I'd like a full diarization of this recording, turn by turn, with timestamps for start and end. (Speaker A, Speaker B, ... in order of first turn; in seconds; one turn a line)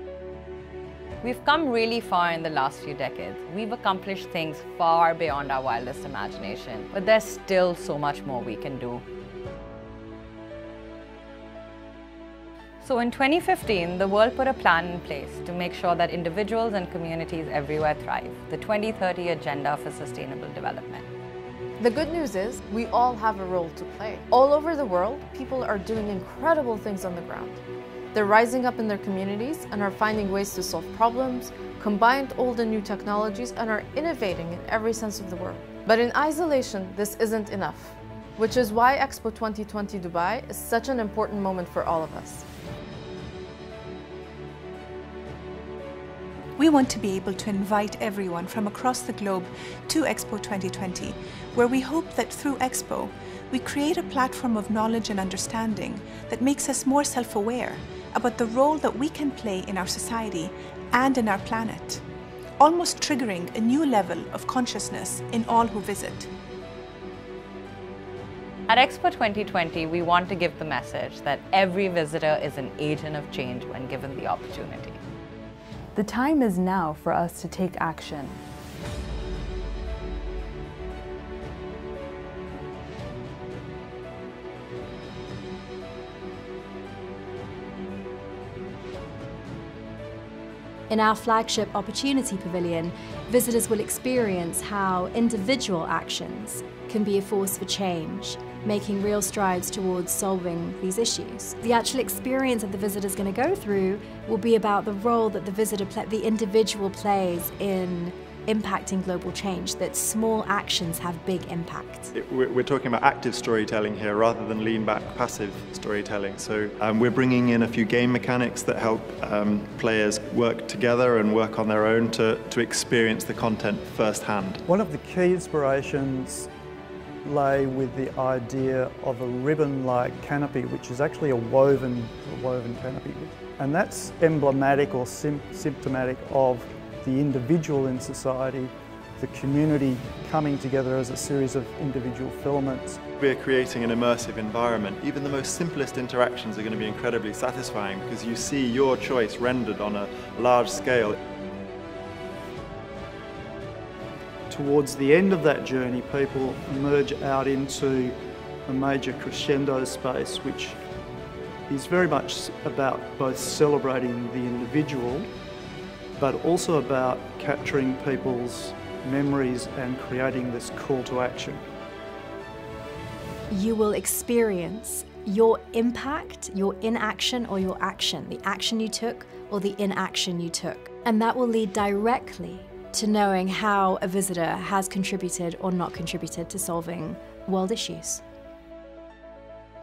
Speaker A: 1.2-9.0
Speaker A: 12.8-21.0
Speaker B: 21.8-27.6
Speaker B: 28.1-42.4
Speaker C: 46.6-62.0
Speaker C: 62.6-66.3
Speaker A: 68.7-75.0
Speaker D: 75.9-78.4
Speaker E: 90.9-112.1
Speaker F: 112.1-124.6
Speaker G: 124.7-126.5
Speaker G: 127.2-143.0
Speaker F: 143.2-151.2
Speaker G: 154.5-160.8
Speaker G: 161.7-165.2
Speaker G: 166.2-171.6
Speaker E: 173.5-188.2